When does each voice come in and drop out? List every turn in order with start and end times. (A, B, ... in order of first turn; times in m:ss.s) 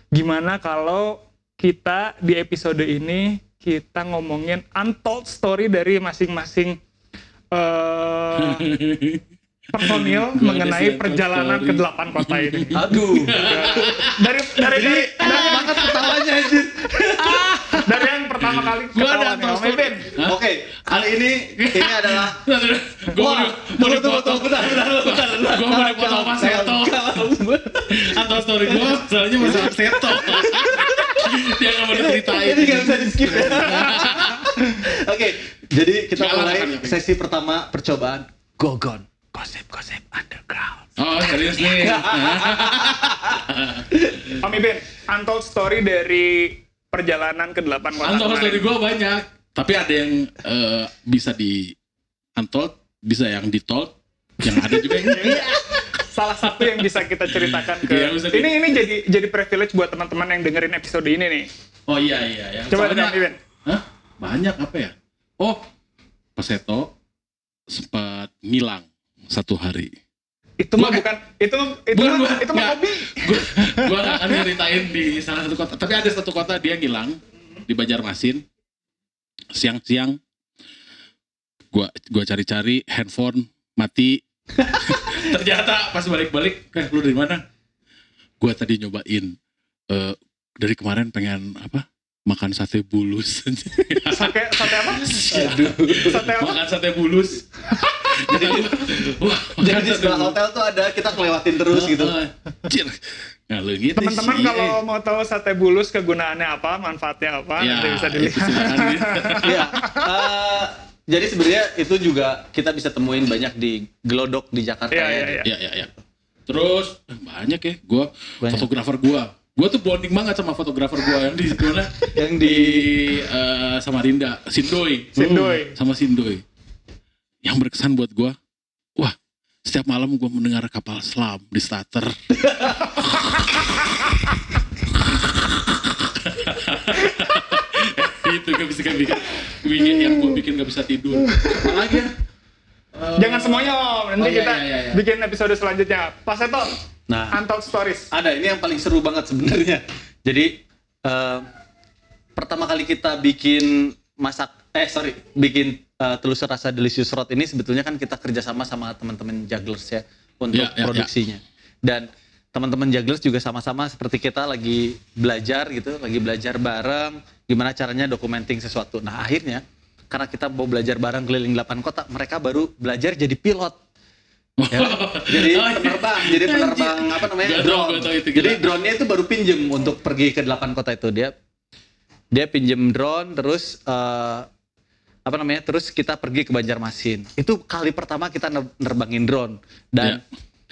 0:00.1-0:06.8 A
0:07.5-0:08.6 A
0:08.4-0:09.2 B
0:09.7-0:15.8 A
0:09.8-0:16.2 B
0:12.7-0:14.1 C
0:14.7-0:17.8 C
0:17.2-0:17.9 B
0:17.8-0:20.1 A
0:18.4-0:20.4 B
0:20.2-0:22.4 C
0:21.6-0:27.3 B
0:23.1-0:43.4 C
0:27.9-0:34.4 B
0:36.1-0:37.0 B
0:41.0-0:44.4 B
0:44.4-0:48.6 A
0:48.0-0:51.7 B
0:52.4-0:55.4 B
0:54.6-0:55.8 C
0:55.1-0:55.5 A
0:56.1-1:01.5 A
0:56.4-0:58.5 B
1:01.9-1:05.6 B
1:02.7-1:03.4 A
1:06.4-1:06.9 B
1:07.7-1:09.9 B
1:10.6-1:13.9 A
1:10.8-1:11.0 B
1:11.9-1:18.4 B
1:19.5-1:20.2 B
1:21.7-1:27.4 B
1:28.4-1:29.4 B
1:29.9-1:40.4 B
1:34.1-1:35.2 A
1:35.3-1:36.2 C
1:36.0-1:36.6 A
1:38.2-1:39.0 C
1:39.6-1:42.1 C
1:41.7-1:44.8 B
1:44.0-1:50.1 A
1:47.6-1:49.6 B
1:49.4-1:55.4 C
1:54.9-1:55.5 A
1:55.4-1:55.9 B
1:56.5-2:06.4 B
1:58.4-1:58.7 C
2:02.1-2:03.1 C
2:05.2-2:05.7 A
2:07.4-2:08.4 B
2:09.6-2:12.2 B
2:12.3-2:12.9 C
2:15.5-2:22.1 B
2:22.9-2:25.0 B
2:23.2-2:26.7 A
2:27.1-2:27.4 C
2:27.3-2:28.1 A
2:28.1-2:31.5 C
2:32.4-2:53.8 C
2:40.5-2:41.1 B
2:54.6-2:58.7 B
2:54.7-3:01.3 C
3:02.3-3:04.5 C
3:05.2-3:10.2 C